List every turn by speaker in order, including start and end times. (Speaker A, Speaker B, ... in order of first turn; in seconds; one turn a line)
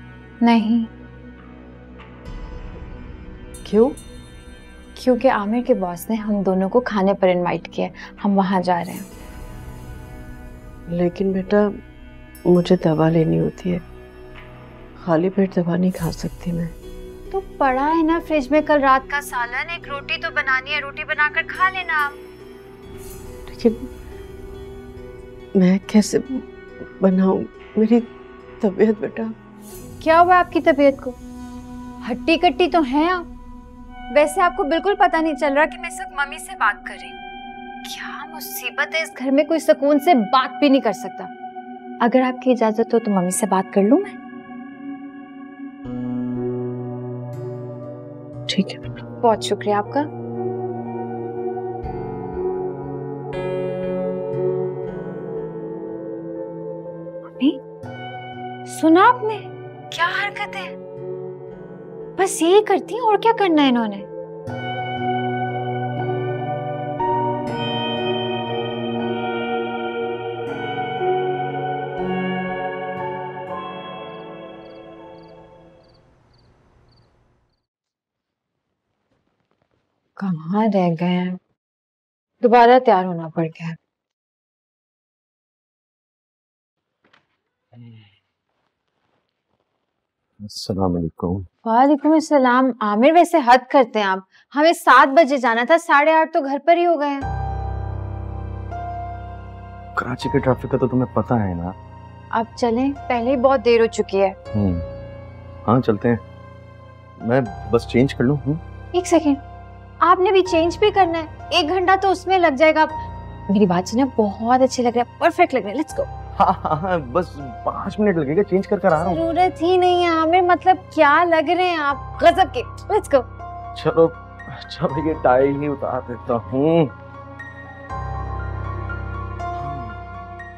Speaker A: 0.4-0.9
Speaker A: 3.6-4.0
Speaker A: 5.0-9.1
Speaker B: 10.9-11.7
Speaker B: 12.5-13.8
Speaker B: 15.0-16.7
Speaker A: 17.3-22.1
Speaker B: 23.5-23.9
Speaker B: 25.6-28.1
Speaker B: 28.6-29.3
Speaker A: 30.0-31.2
Speaker A: 32.0-33.2
Speaker A: 34.1-37.1
Speaker A: 37.8-41.3
Speaker A: 42.0-44.1
Speaker B: 48.5-49.0
Speaker A: 49.2-50.1
Speaker A: 58.6-60.7
Speaker A: 62.2-64.1
Speaker A: 80.2-81.4
Speaker A: 82.4-83.8
Speaker C: 90.4-91.5
Speaker A: 91.6-97.2
Speaker C: 99.9-101.7
Speaker A: 102.3-104.3
Speaker C: 104.5-104.8
Speaker C: 105.6-106.2
Speaker C: 107.2-108.6
Speaker A: 108.9-109.4
Speaker A: 110.0-116.1
Speaker C: 116.4-119.2
Speaker A: 119.0-123.3
Speaker C: 123.7-126.9
Speaker C: 129.5-130.1